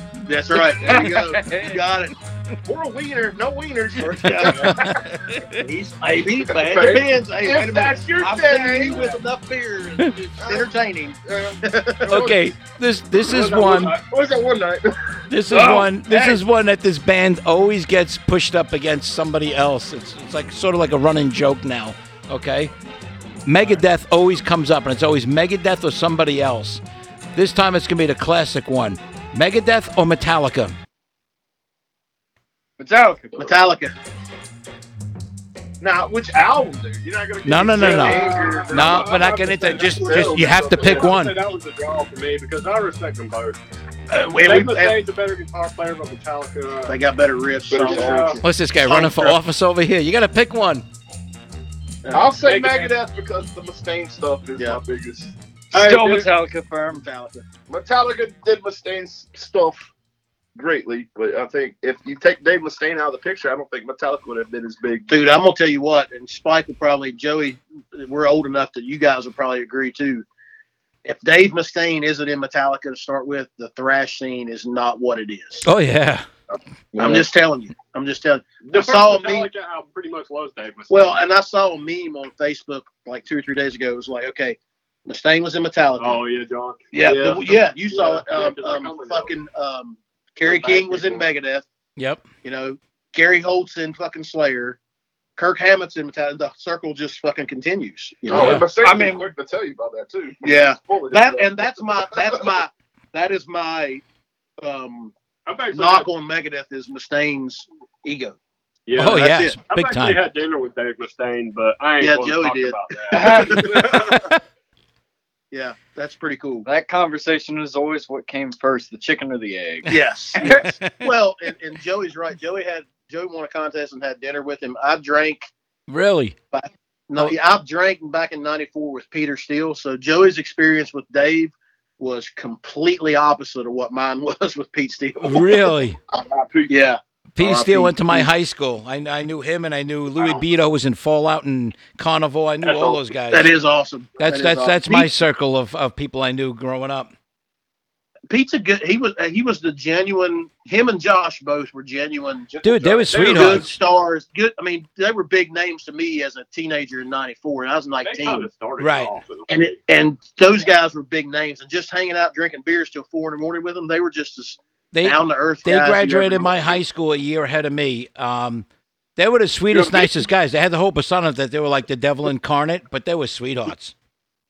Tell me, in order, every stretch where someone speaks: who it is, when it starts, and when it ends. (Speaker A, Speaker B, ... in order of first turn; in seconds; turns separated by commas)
Speaker A: 0.3-2.1, Speaker B: 0.7-1.8, Speaker C: 2.6-5.0, Speaker A: 4.0-4.8, Speaker D: 4.6-5.7, Speaker A: 5.6-12.1, Speaker C: 6.5-9.2, Speaker C: 10.4-10.7, Speaker C: 11.2-12.5, Speaker D: 12.1-14.0, Speaker E: 13.3-14.0, Speaker C: 13.6-15.8, Speaker D: 15.3-22.7, Speaker D: 23.5-26.8, Speaker D: 27.4-30.8, Speaker B: 32.8-33.6, Speaker A: 33.4-33.9, Speaker C: 35.8-41.2, Speaker D: 37.4-41.4, Speaker E: 37.8-43.6, Speaker A: 44.1-45.0, Speaker E: 44.4-47.0, Speaker A: 46.9-49.4, Speaker C: 47.7-48.4, Speaker E: 47.8-48.4, Speaker D: 48.4-50.9, Speaker C: 52.1-55.3, Speaker E: 52.4-52.9, Speaker B: 55.7-57.0, Speaker A: 55.7-56.3, Speaker A: 56.9-57.4, Speaker C: 57.7-59.9, Speaker C: 60.6-65.1, Speaker A: 65.1-70.2, Speaker A: 71.0-75.7, Speaker D: 75.7-76.3, Speaker C: 76.9-77.2, Speaker A: 77.0-79.5, Speaker E: 78.7-81.2, Speaker A: 80.9-86.2, Speaker E: 86.0-89.3, Speaker A: 86.9-91.7, Speaker E: 90.4-91.3, Speaker D: 92.0-92.2, Speaker A: 92.4-94.8, Speaker A: 95.4-98.6, Speaker C: 98.3-102.3, Speaker D: 98.3-98.7, Speaker B: 98.8-99.3, Speaker A: 100.4-104.0, Speaker A: 104.6-105.1, Speaker E: 105.5-106.1, Speaker A: 105.7-108.4, Speaker E: 108.9-113.8, Speaker D: 109.0-110.2, Speaker A: 109.0-109.6, Speaker A: 112.0-114.3, Speaker C: 113.7-114.0, Speaker A: 115.5-116.7, Speaker B: 116.7-119.9, Speaker A: 119.9-125.5, Speaker D: 120.4-121.1, Speaker D: 125.9-126.4, Speaker A: 126.5-135.5, Speaker D: 135.2-136.0, Speaker C: 136.1-136.7, Speaker A: 136.7-138.3, Speaker D: 137.4-143.5, Speaker A: 143.3-145.1, Speaker D: 144.2-147.1, Speaker A: 148.3-152.5, Speaker C: 152.5-153.4, Speaker D: 152.6-153.7, Speaker E: 153.1-153.6, Speaker A: 153.2-158.5, Speaker E: 158.0-159.8, Speaker D: 158.8-159.2, Speaker A: 159.5-166.8, Speaker D: 164.9-168.7, Speaker D: 169.2-173.9, Speaker C: 169.7-170.2